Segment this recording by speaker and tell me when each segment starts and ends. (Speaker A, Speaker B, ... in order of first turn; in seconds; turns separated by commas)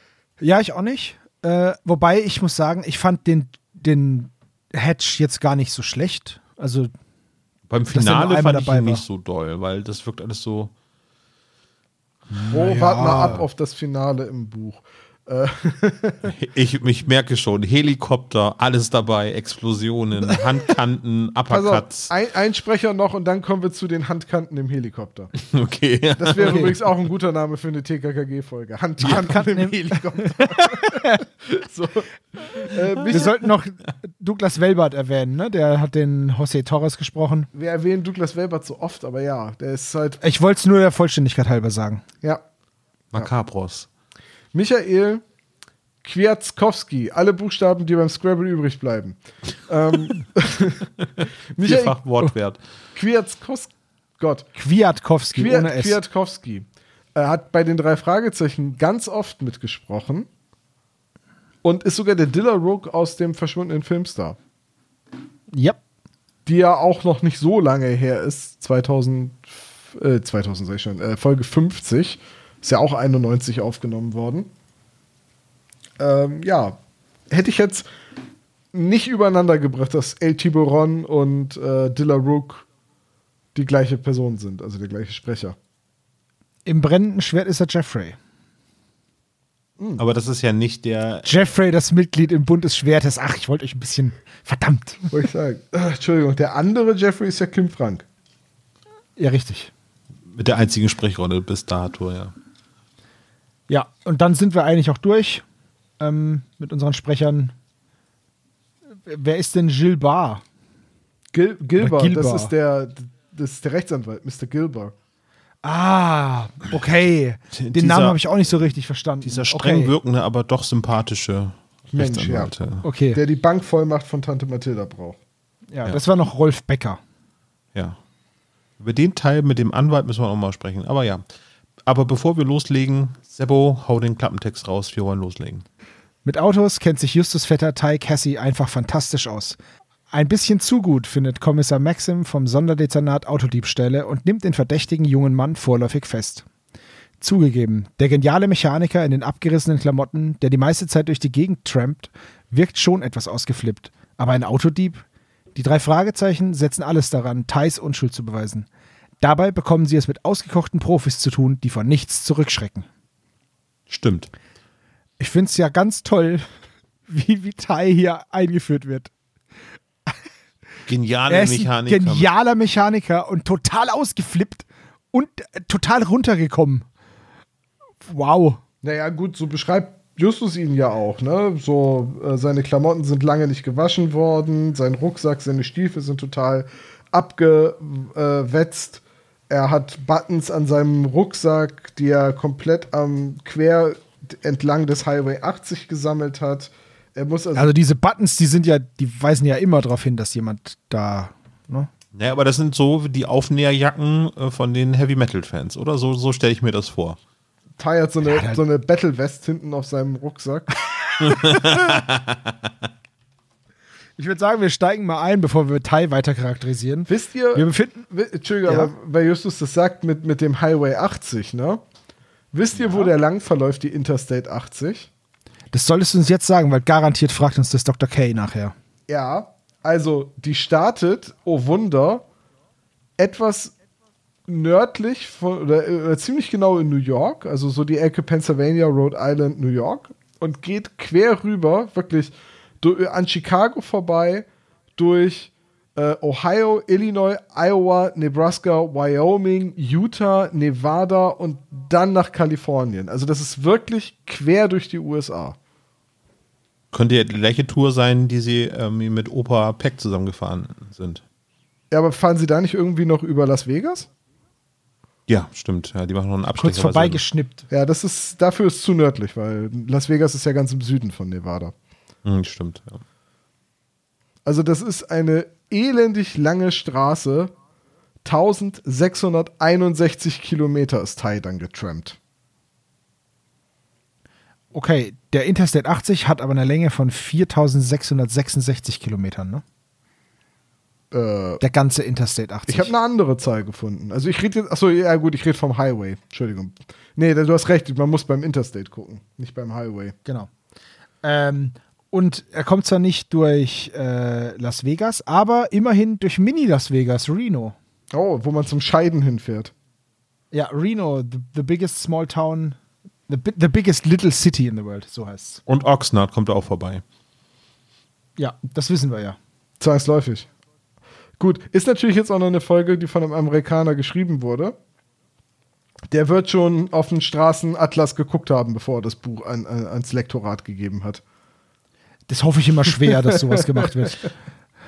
Speaker A: 0.4-6.9, Speaker B: 7.7-10.7, Speaker A: 7.9-9.0, Speaker C: 12.5-16.3, Speaker A: 12.5-13.4, Speaker B: 16.3-22.1, Speaker C: 21.5-25.3, Speaker B: 25.4-26.8, Speaker C: 26.2-33.3, Speaker A: 26.4-26.7, Speaker A: 29.0-31.2, Speaker A: 33.1-37.5, Speaker C: 37.5-40.2, Speaker A: 40.2-42.0, Speaker B: 43.1-43.9, Speaker C: 44.5-45.2, Speaker C: 46.0-50.9, Speaker B: 51.2-52.6, Speaker C: 51.5-52.0, Speaker C: 53.0-54.5, Speaker A: 54.6-56.0, Speaker C: 55.4-60.3, Speaker C: 61.6-64.4, Speaker A: 65.5-65.8, Speaker C: 66.5-74.5, Speaker C: 76.0-76.8, Speaker C: 77.3-77.9, Speaker C: 78.7-82.7, Speaker C: 83.5-85.6, Speaker A: 86.7-88.2, Speaker B: 90.0-91.3, Speaker A: 91.3-95.1, Speaker C: 95.1-98.0, Speaker A: 99.2-99.7, Speaker B: 100.3-102.3, Speaker A: 103.7-105.4, Speaker A: 106.0-107.5, Speaker A: 109.1-110.4, Speaker C: 111.3-114.9, Speaker A: 111.8-112.5, Speaker A: 115.6-119.9, Speaker B: 117.5-118.2, Speaker B: 119.2-122.8, Speaker C: 121.9-122.5, Speaker A: 122.8-123.2, Speaker C: 123.1-125.2, Speaker A: 125.7-127.0, Speaker B: 128.8-131.2, Speaker B: 131.8-135.6, Speaker A: 136.2-139.6, Speaker A: 140.1-146.4, Speaker A: 147.2-155.0, Speaker A: 155.6-158.7, Speaker A: 159.2-162.9, Speaker B: 163.9-164.3, Speaker A: 165.2-166.5, Speaker A: 167.1-169.1, Speaker B: 170.9-172.3, Speaker A: 171.3-176.9, Speaker A: 178.0-178.6, Speaker C: 178.8-197.7, Speaker A: 197.6-201.9, Speaker B: 202.1-207.2, Speaker C: 207.8-210.7, Speaker A: 208.2-208.6, Speaker B: 211.2-212.5, Speaker A: 211.3-211.8, Speaker A: 214.2-218.1, Speaker C: 217.1-221.8, Speaker A: 218.7-218.9, Speaker C: 222.5-225.1, Speaker A: 222.8-223.1, Speaker A: 225.7-228.7, Speaker C: 229.1-232.2, Speaker C: 233.2-233.7, Speaker C: 234.5-255.6, Speaker B: 256.9-261.2, Speaker C: 261.9-264.1, Speaker B: 265.3-267.2, Speaker A: 266.6-267.6, Speaker C: 267.7-271.7, Speaker B: 272.2-273.0, Speaker C: 274.4-277.5, Speaker C: 278.2-282.2, Speaker A: 284.7-289.6, Speaker C: 291.1-291.6, Speaker A: 291.6-292.9, Speaker C: 292.7-300.1, Speaker A: 301.2-307.8, Speaker C: 308.1-309.7, Speaker A: 310.5-312.8, Speaker A: 313.3-315.6, Speaker B: 315.7-317.0, Speaker A: 318.4-319.4, Speaker C: 319.8-320.5, Speaker C: 321.4-324.8, Speaker C: 326.1-331.2, Speaker A: 332.3-334.3, Speaker C: 333.0-334.2